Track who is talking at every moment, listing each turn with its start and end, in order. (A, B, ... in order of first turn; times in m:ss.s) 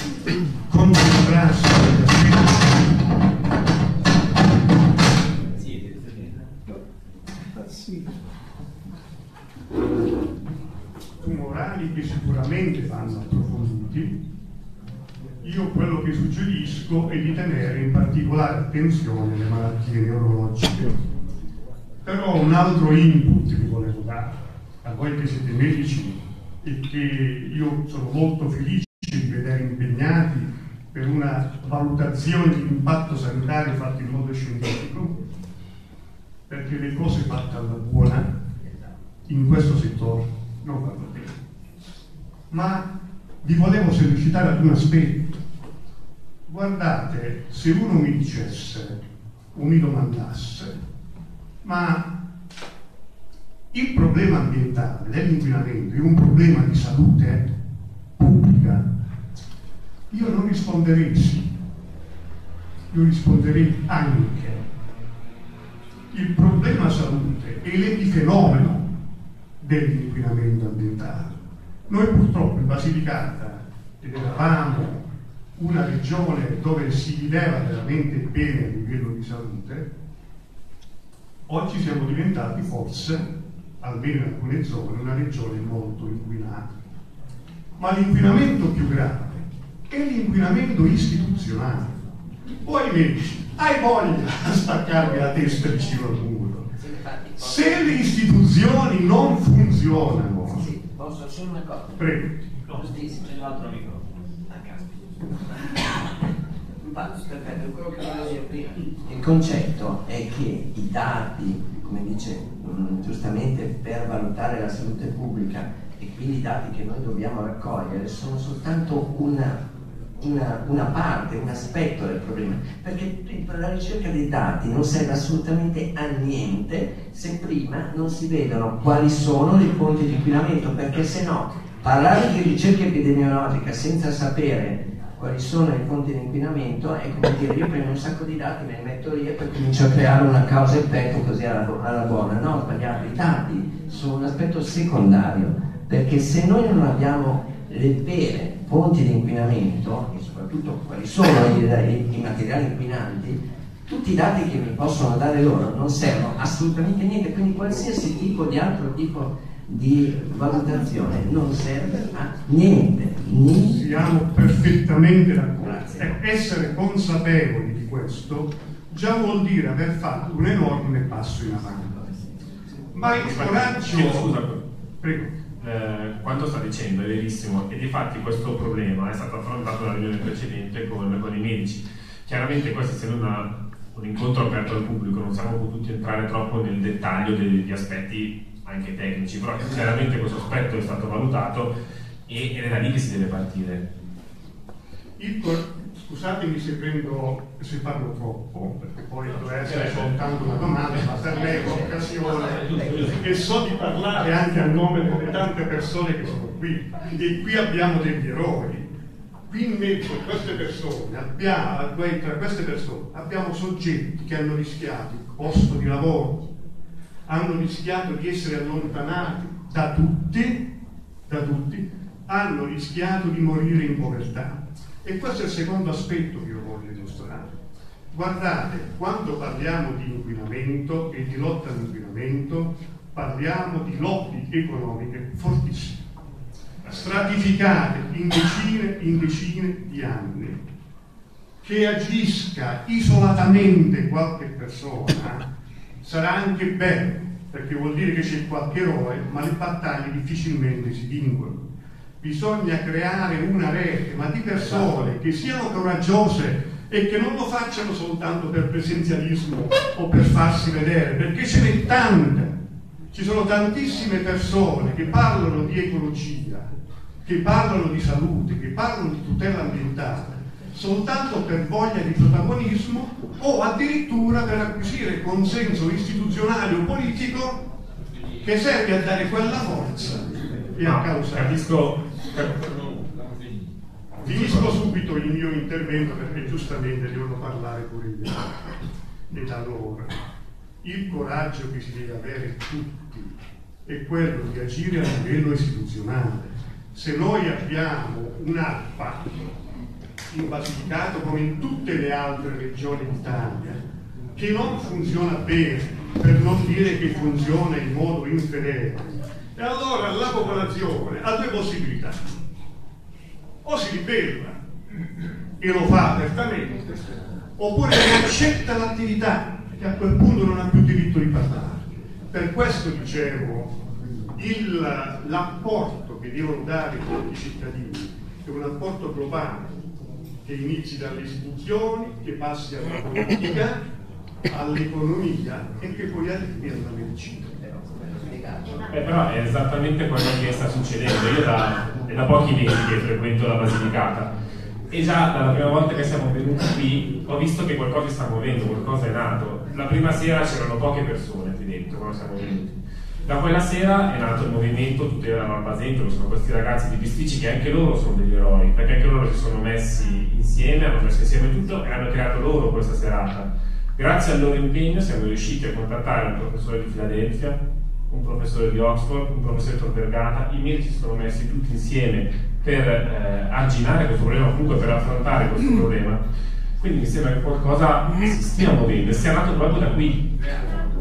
0:00.7-0:03.1 A
0:11.2-0:14.2 A
0:15.4-0:21.0 A
0:22.0-0:35.2 A
0:36.5-0:38.4 A
0:39.3-0:41.4 A
0:42.5-0:42.9 A
0:43.4-0:45.4 A
0:46.5-0:50.8 A
0:51.6-0:52.1 A
0:53.7-0:57.5 A
0:58.2-0:58.9 A
1:00.1-1:01.5 A
1:02.9-1:04.6 A
1:06.1-1:08.9 A
1:09.6-1:11.4 A
1:11.9-1:19.9 A
1:21.5-1:26.7 A
1:27.8-1:32.0 A
1:32.6-1:36.7 A
1:36.8-1:37.6 B
1:37.4-1:40.7 A
1:40.6-1:42.0 B
1:42.0-1:42.4 A
1:42.8-1:43.8 B
1:44.5-1:44.9 B
1:46.8-1:59.6 B
2:00.2-2:43.8 B
2:43.6-2:52.0 A
2:45.7-2:46.0 B
2:52.9-2:54.4 A
2:53.1-2:54.6 C
2:55.0-2:55.3 A
2:55.6-3:11.7 C
3:12.3-3:13.8 C
3:15.2-3:28.9 A
3:19.6-3:20.1 C
3:21.6-3:22.7 B
3:29.5-3:36.5 A
3:37.3-3:40.7 A
3:41.3-3:47.6 A
3:48.1-3:56.0 A
3:56.9-4:00.6 A
4:01.6-4:05.5 A
4:06.0-4:11.6 A
4:12.2-4:22.6 A
4:23.1-4:26.7 A
4:27.2-4:37.6 A
4:38.4-4:41.8 A
4:40.8-4:42.9 C
4:44.2-4:48.5 A
4:44.3-4:44.7 C
4:49.3-4:50.2 A
4:50.8-4:53.3 A
4:53.9-4:59.5 A
5:00.3-5:03.8 A
5:04.4-5:12.3 A
5:13.6-5:14.6 A
5:15.6-5:29.7 A
5:30.4-5:33.8 A
5:34.5-5:37.6 A
5:37.7-5:38.6 B
5:38.9-5:44.3 C
5:44.9-5:52.7 C
5:53.3-6:16.2 C
6:16.8-6:20.3 C